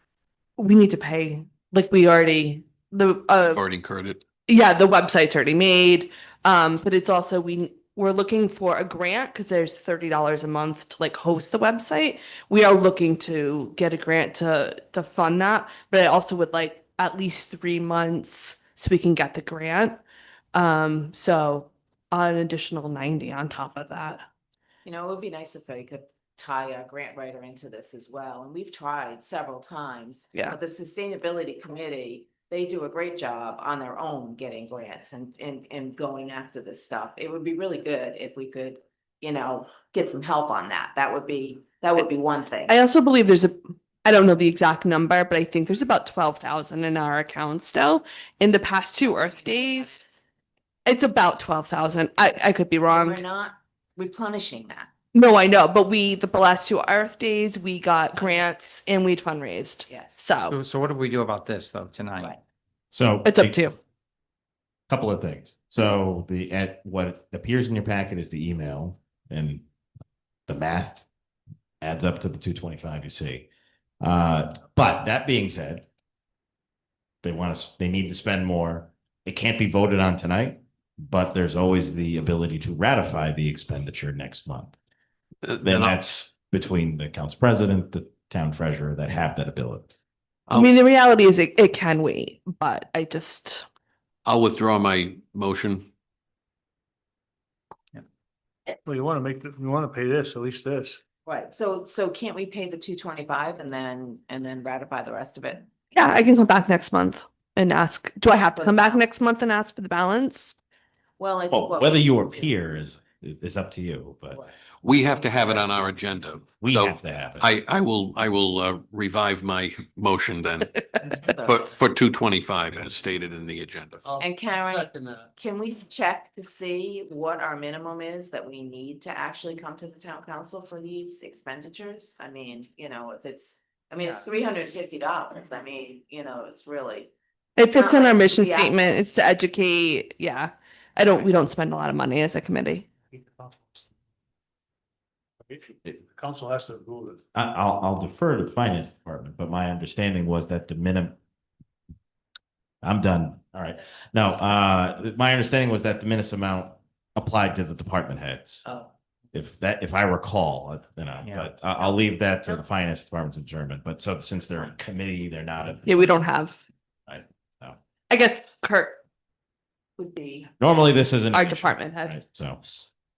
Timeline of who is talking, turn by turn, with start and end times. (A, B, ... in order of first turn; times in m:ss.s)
0:00.6-0:03.6 A
0:03.4-0:04.2 B
0:04.4-0:20.0 A
0:20.5-0:24.2 A
0:24.8-0:42.7 C
0:42.7-0:50.0 A
0:49.0-0:50.1 C
0:50.8-0:53.2 A
0:52.9-0:54.9 C
0:55.1-1:00.6 A
0:58.1-0:58.4 C
0:59.9-1:00.2 C
1:00.5-1:02.4 D
1:02.9-1:03.6 E
1:03.2-1:03.8 A
1:04.9-1:09.6 E
1:10.5-1:11.0 E
1:11.8-1:13.5 E
1:14.0-1:15.8 E
1:17.2-1:24.7 E
1:25.4-1:26.0 B
1:25.6-1:30.0 E
1:30.5-1:33.6 A
1:34.2-1:35.9 B
1:38.8-1:41.0 F
1:41.2-1:45.7 C
1:45.9-1:50.5 A
1:48.3-1:49.1 C
1:51.2-1:52.5 C
1:51.5-1:54.4 E
1:54.8-2:00.8 B
1:55.1-1:55.7 C
1:56.6-1:57.4 E
2:01.3-2:01.7 C
2:01.4-2:04.2 B
2:04.2-2:17.1 C
2:17.6-2:22.9 A
2:17.7-2:19.0 C
2:23.1-2:23.9 F
2:25.4-2:27.2 F
2:27.3-2:31.2 E
2:32.8-2:38.6 E
2:38.6-2:38.9 C
2:39.3-2:46.1 E
2:41.2-2:41.5 D
2:45.8-2:46.6 A
2:47.1-2:47.8 E
2:48.1-2:49.0 A
2:50.0-2:50.5 A
2:50.6-2:52.6 E
2:51.3-2:52.2 A